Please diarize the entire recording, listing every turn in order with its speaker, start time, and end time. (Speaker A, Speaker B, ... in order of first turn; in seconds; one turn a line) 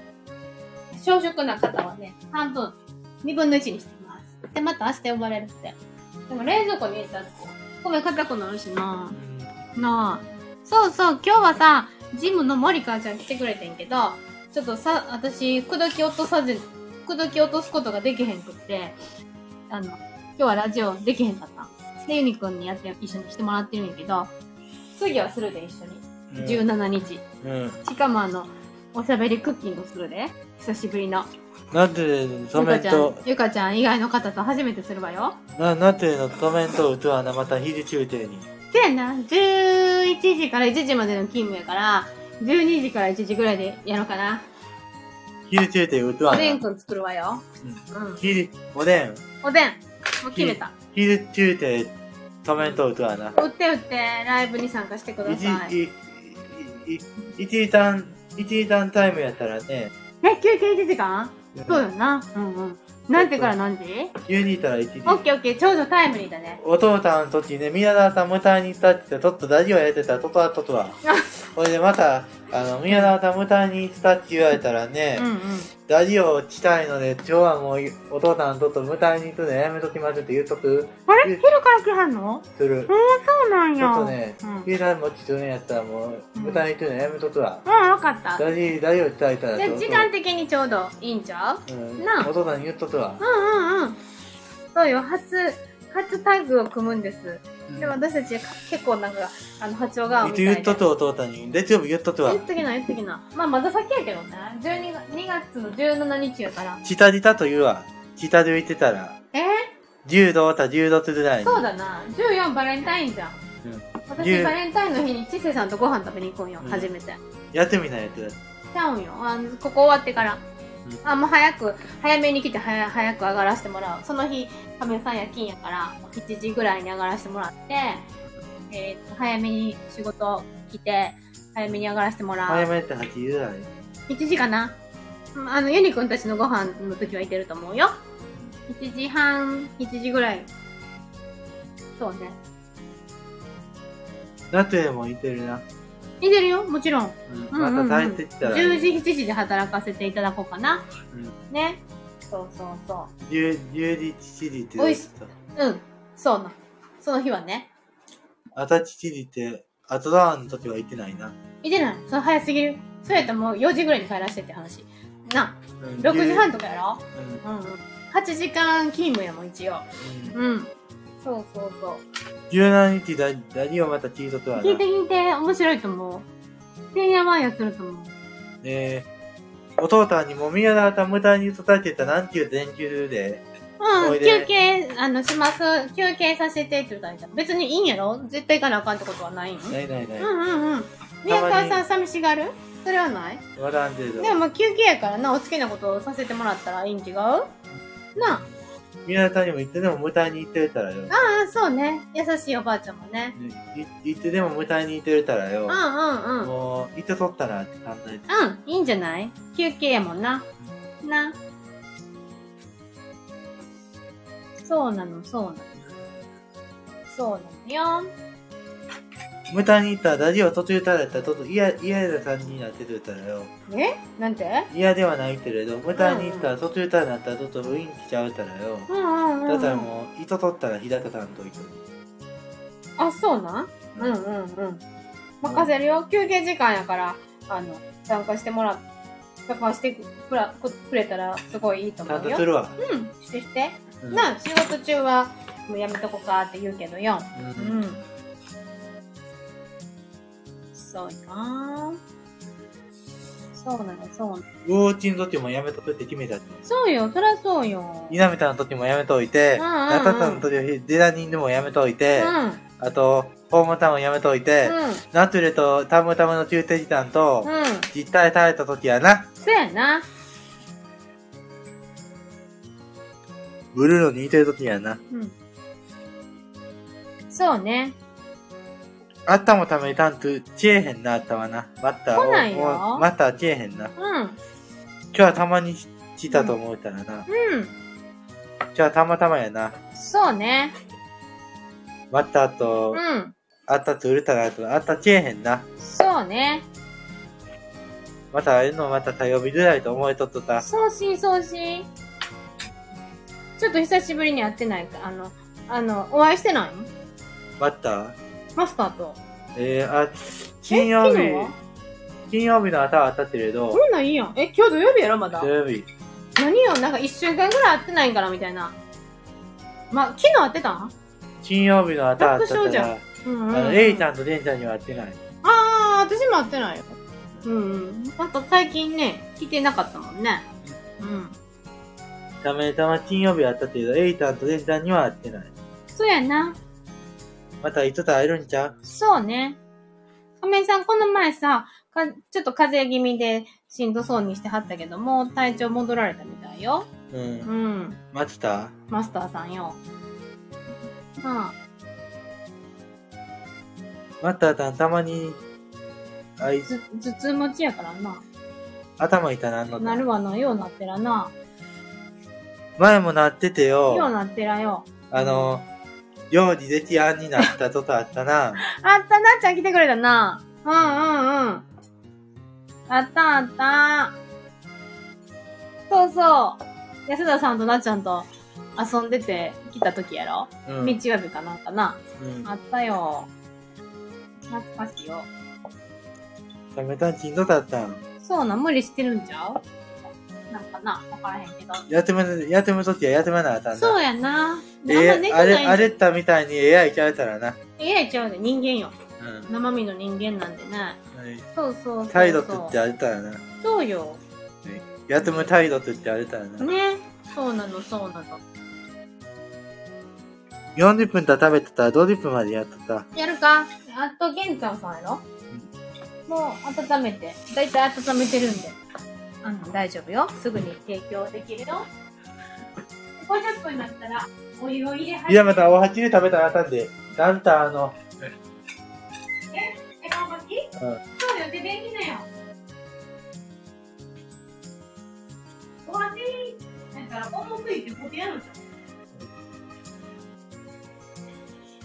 Speaker A: 0.9-5.8
Speaker A: 6.3-9.2
Speaker B: 9.1-10.2
Speaker A: 9.8-18.9
Speaker A: 19.7-24.3
Speaker A: 24.9-27.2
Speaker B: 26.3-26.7
Speaker B: 27.4-27.8
Speaker A: 27.8-31.3
Speaker B: 31.7-33.2
Speaker A: 32.5-35.4
Speaker B: 35.5-38.5
Speaker A: 38.7-44.5
Speaker B: 45.5-46.6
Speaker A: 46.3-48.2
Speaker B: 47.6-49.2
Speaker A: 49.4-50.7
Speaker B: 50.3-53.3
Speaker A: 53.3-55.7
Speaker B: 55.2-59.9
Speaker A: 60.2-64.1
Speaker B: 61.5-61.8
Speaker B: 63.1-63.5
Speaker B: 64.2-65.2
Speaker A: 65.0-66.6
Speaker B: 66.6-71.0
Speaker A: 71.0-71.3
Speaker B: 71.5-75.3
Speaker A: 75.2-75.7
Speaker B: 75.8-81.4
Speaker A: 81.1-84.7
Speaker B: 82.5-82.9
Speaker B: 83.8-87.6
Speaker A: 86.3-86.7
Speaker A: 87.6-88.4
Speaker B: 88.4-90.1
Speaker A: 89.5-92.3
Speaker B: 91.7-93.2
Speaker A: 93.2-94.0
Speaker A: 94.7-100.8
Speaker B: 97.7-98.0
Speaker B: 100.2-102.4
Speaker A: 102.2-106.8
Speaker B: 106.8-109.2
Speaker A: 109.3-109.7
Speaker B: 110.0-111.6
Speaker A: 111.4-113.4
Speaker B: 113.6-114.6
Speaker A: 114.1-117.2
Speaker B: 116.6-116.9
Speaker B: 117.5-118.4
Speaker A: 118.7-120.4
Speaker A: 121.0-128.1
Speaker A: 128.7-132.7
Speaker B: 132.5-133.7
Speaker A: 134.1-134.8
Speaker A: 135.3-137.9
Speaker A: 138.7-140.5
Speaker A: 142.0-142.4
Speaker B: 144.5-145.6
Speaker A: 146.2-150.9
Speaker B: 147.3-149.0
Speaker A: 151.5-153.1
Speaker B: 153.2-155.3
Speaker A: 154.8-157.7
Speaker B: 158.5-161.3
Speaker A: 161.6-170.7
Speaker B: 165.8-166.5
Speaker B: 167.1-167.4
Speaker B: 170.0-170.4
Speaker A: 171.2-172.0
Speaker B: 172.5-174.8
Speaker A: 174.6-176.3
Speaker A: 176.9-178.1
Speaker B: 178.6-179.1
Speaker B: 179.8-183.4
Speaker A: 183.8-193.4
Speaker B: 184.0-184.5
Speaker B: 189.7-190.3
Speaker B: 191.3-191.8
Speaker B: 193.6-194.4
Speaker A: 194.2-197.5
Speaker A: 198.2-198.4
Speaker B: 198.2-198.5
Speaker B: 199.0-201.1
Speaker A: 201.1-203.3
Speaker B: 203.3-205.8
Speaker A: 205.7-206.5
Speaker B: 206.4-208.3
Speaker A: 208.3-210.5
Speaker A: 211.0-211.4
Speaker A: 214.6-215.7
Speaker A: 217.1-218.1
Speaker B: 219.5-223.5
Speaker A: 223.7-224.7
Speaker B: 224.7-228.9
Speaker A: 225.9-226.5
Speaker A: 228.9-229.9
Speaker B: 229.5-231.8
Speaker A: 233.0-234.8
Speaker A: 235.4-238.8
Speaker B: 235.4-235.7
Speaker A: 239.5-248.0
Speaker B: 242.1-242.8
Speaker B: 244.0-244.3
Speaker B: 247.3-247.8
Speaker A: 250.7-252.0
Speaker A: 253.5-254.4
Speaker B: 254.6-256.6
Speaker A: 256.6-258.2
Speaker B: 258.1-269.3
Speaker A: 259.6-260.4
Speaker A: 262.1-262.6
Speaker A: 264.6-265.0
Speaker A: 267.4-267.9
Speaker A: 269.4-270.0
Speaker B: 273.7-275.0
Speaker A: 277.3-277.9
Speaker B: 279.3-283.9
Speaker A: 282.1-283.1
Speaker A: 284.0-284.4
Speaker B: 285.1-287.3
Speaker A: 286.3-286.5
Speaker A: 287.3-287.7
Speaker B: 288.7-289.7
Speaker A: 289.9-290.7
Speaker B: 292.1-293.0
Speaker A: 292.9-293.3
Speaker B: 293.7-295.6
Speaker A: 295.8-296.6
Speaker B: 298.3-300.7
Speaker A: 300.6-301.9
Speaker A: 303.6-306.9
Speaker B: 307.6-308.1
Speaker A: 308.6-309.2
Speaker B: 309.6-311.5
Speaker A: 310.7-311.6
Speaker B: 312.3-313.8
Speaker A: 313.7-315.5
Speaker B: 315.4-315.9
Speaker A: 316.4-318.8
Speaker A: 319.9-320.9
Speaker B: 321.4-325.2
Speaker A: 322.2-324.1
Speaker A: 325.4-330.4
Speaker A: 331.0-331.4
Speaker B: 332.4-335.5
Speaker A: 335.9-336.6
Speaker B: 337.6-338.7
Speaker A: 338.8-339.6
Speaker A: 340.4-346.9
Speaker B: 347.1-347.5
Speaker A: 347.4-348.0
Speaker B: 348.1-348.7
Speaker A: 348.9-349.8
Speaker A: 351.2-351.5
Speaker B: 354.2-355.4
Speaker B: 356.4-356.7
Speaker A: 356.6-358.2
Speaker B: 359.0-360.1
Speaker A: 359.8-361.3
Speaker B: 362.8-364.1
Speaker A: 363.9-365.5
Speaker B: 365.1-365.7
Speaker B: 366.3-368.6
Speaker A: 368.6-371.6
Speaker A: 372.9-374.1
Speaker A: 375.9-383.3
Speaker B: 380.7-381.0
Speaker B: 382.2-382.5
Speaker A: 384.5-385.3
Speaker B: 386.7-388.0
Speaker A: 388.2-389.6
Speaker A: 390.5-391.9
Speaker B: 391.9-394.0
Speaker A: 393.7-395.9
Speaker B: 394.9-397.6
Speaker A: 397.8-398.9
Speaker B: 399.2-399.5
Speaker A: 399.5-401.0
Speaker B: 401.1-401.5
Speaker A: 401.6-402.8
Speaker B: 402.1-403.4
Speaker A: 403.6-404.2
Speaker B: 404.6-406.7
Speaker A: 405.2-405.5
Speaker A: 406.6-408.4
Speaker B: 410.8-413.1
Speaker A: 413.1-415.2
Speaker A: 416.3-418.8
Speaker A: 419.4-421.9
Speaker A: 423.2-425.8
Speaker B: 425.3-428.0
Speaker A: 429.5-432.3
Speaker A: 435.8-438.6